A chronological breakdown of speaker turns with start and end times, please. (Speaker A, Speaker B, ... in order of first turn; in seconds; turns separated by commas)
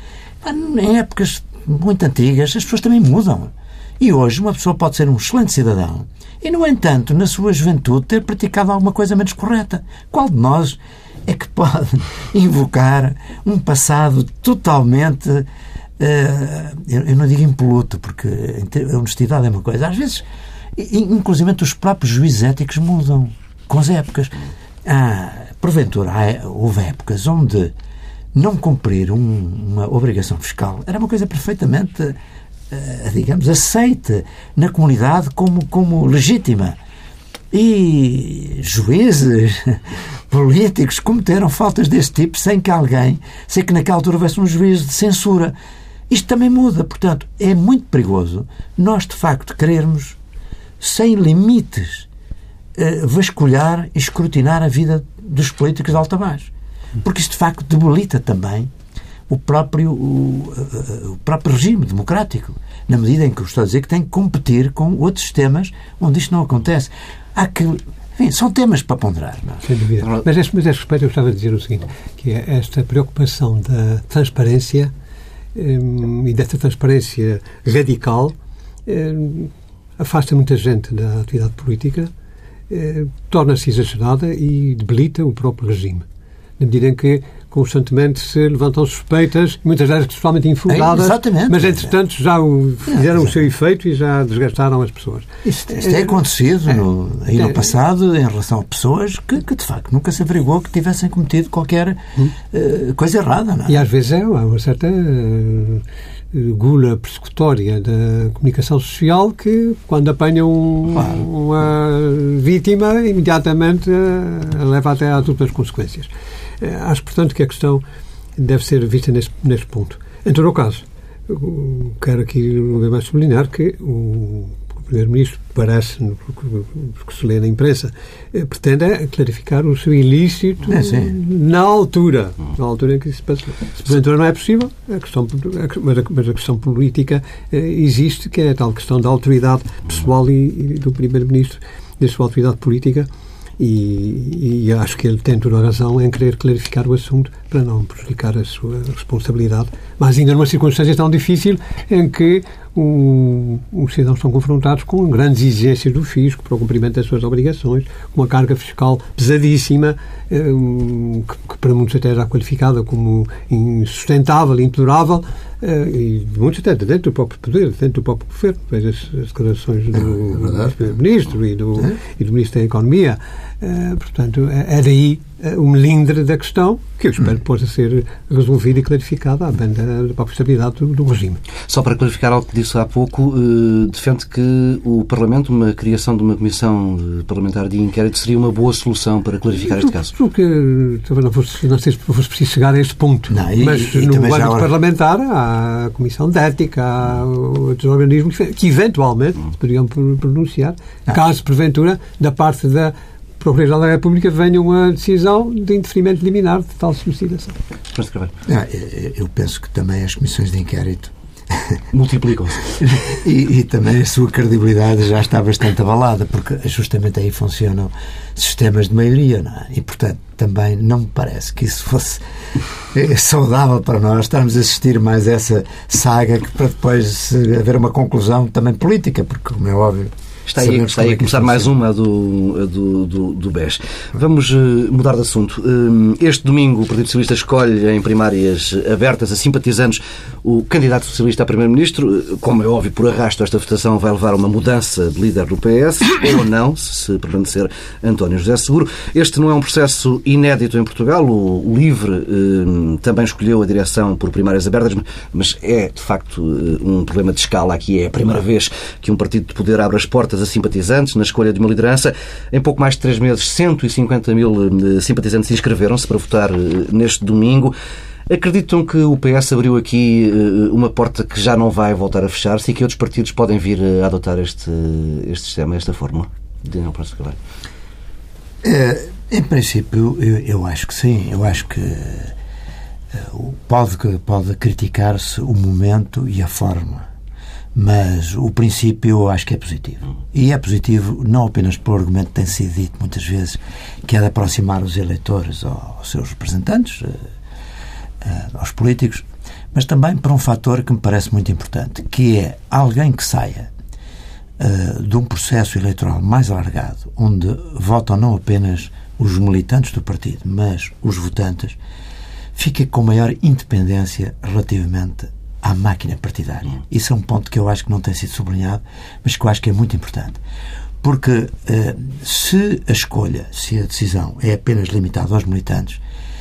Speaker A: 0.4-15.5, Speaker A: 16.0-27.7, Speaker A: 28.3-32.2, Speaker A: 32.7-36.8, Speaker A: 37.5-45.5, Speaker A: 46.1-50.2, Speaker A: 50.8-52.1, Speaker A: 52.8-56.5, Speaker A: 57.0-58.7, Speaker A: 59.3-69.6, Speaker B: 69.6-74.9, Speaker B: 75.5-82.1, Speaker B: 82.7-86.0, Speaker B: 86.6-96.1, Speaker A: 90.7-91.9, Speaker A: 92.9-93.3, Speaker A: 95.4-103.8, Speaker B: 103.7-117.8, Speaker A: 110.9-111.2, Speaker B: 118.4-143.1, Speaker A: 130.7-131.1, Speaker B: 143.6-181.4, Speaker A: 170.3-170.7, Speaker C: 181.7-190.1, Speaker B: 189.6-207.6, Speaker A: 193.3-194.7, Speaker C: 207.9-208.3, Speaker A: 208.4-211.8, Speaker C: 211.9-212.8, Speaker A: 212.8-231.7, Speaker C: 230.5-267.7, Speaker C: 268.3-277.4, Speaker A: 278.6-282.3, Speaker A: 283.1-287.1, Speaker A: 287.7-297.3, Speaker A: 298.2-303.7, Speaker A: 304.6-311.8, Speaker A: 312.5-320.4, Speaker A: 321.0-326.0